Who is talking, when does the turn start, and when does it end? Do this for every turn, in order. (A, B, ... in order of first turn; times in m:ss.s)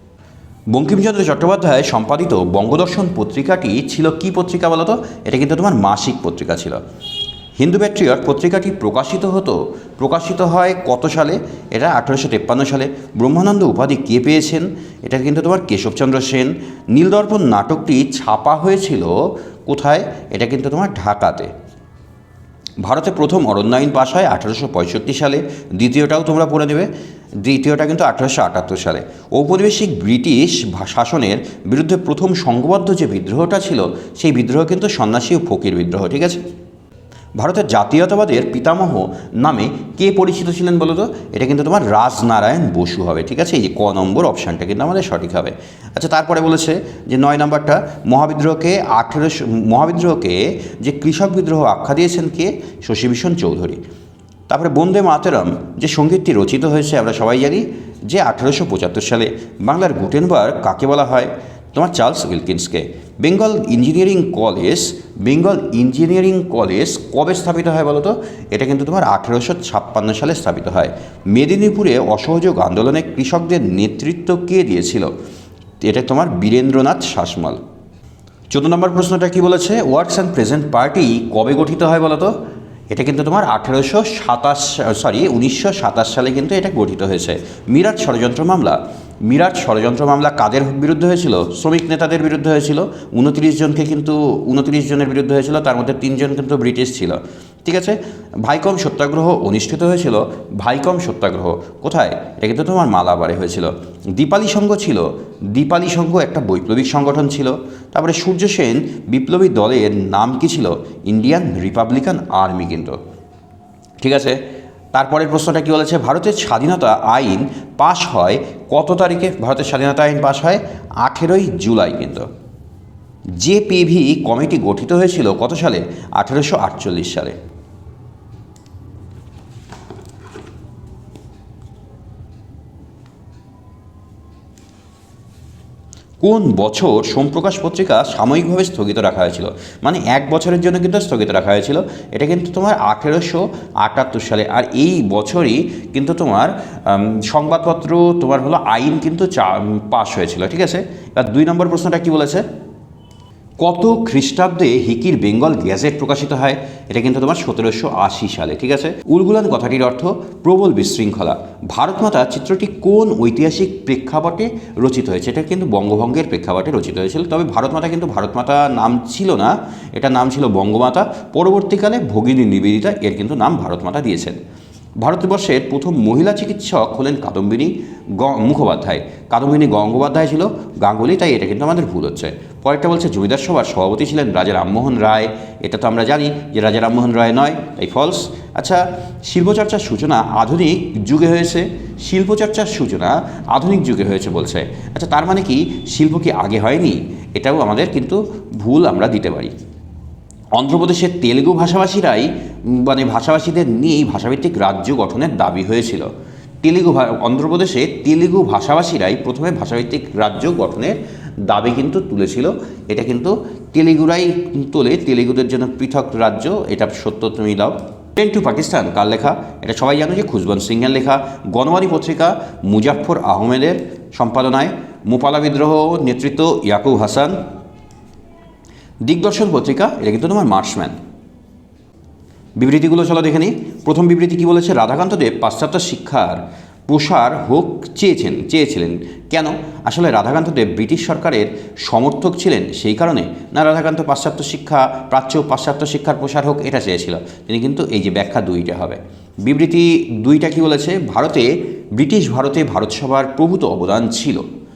0:00.7-0:06.8 A
0:07.6-0:21.5 A
0:22.8-0:26.9 A
0:27.4-0:36.4 A
0:37.4-0:53.8 A
0:54.5-1:15.1 A
1:15.8-1:17.6 A
1:18.5-1:22.3 A
1:22.9-1:53.0 A
1:54.0-1:54.4 A
1:54.9-2:02.3 A
2:03.4-2:07.4 A
2:16.2-2:32.4 A
2:33.6-2:54.4 A
2:55.0-3:19.5 A
3:20.6-3:26.1 A
3:26.6-3:47.4 A
3:49.0-3:51.0 A
3:52.6-4:14.4 A